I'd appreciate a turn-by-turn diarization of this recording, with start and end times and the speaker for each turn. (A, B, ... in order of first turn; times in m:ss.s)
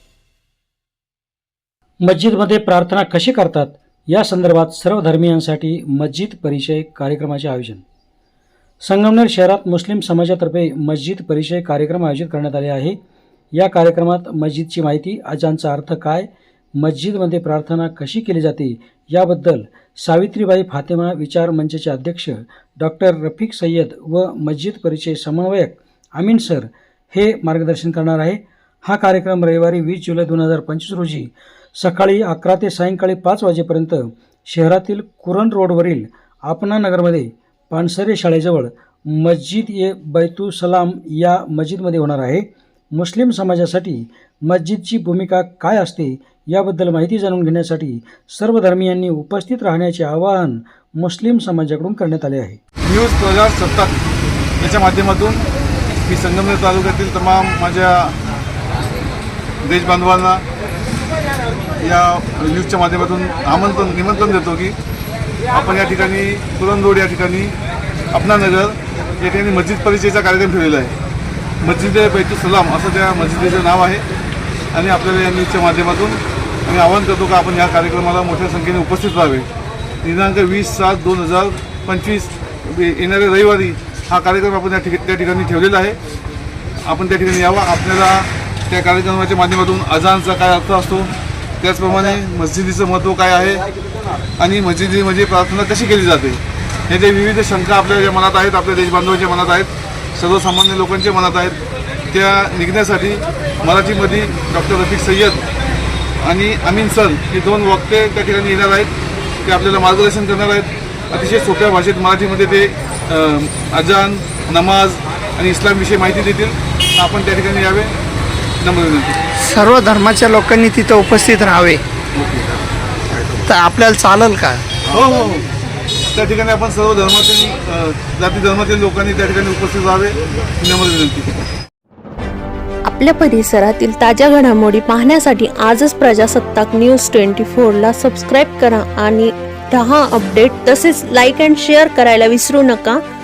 0:02.0-0:07.8 A
0:08.8-0:13.0 A
0:13.6-0:52.6 A
0:52.8-0:53.9 B
0:54.6-0:55.4 B
0:56.0-0:58.2 B
0:59.6-1:00.4 B
1:01.8-1:04.8 B
1:05.5-1:07.6 B
1:08.1-1:11.0 B
1:11.6-1:14.0 B
1:14.7-1:19.5 B
1:20.0-1:26.0 B
1:26.8-1:33.6 B
1:34.4-1:41.6 B
1:42.1-1:45.5 B
1:46.2-1:57.9 B
1:58.6-1:59.2 B
1:59.4-2:01.8 C
2:02.2-2:02.4 B
2:03.4-2:04.6 C
2:04.9-2:05.4 B
2:06.1-2:11.3 B
2:12.8-2:23.0 D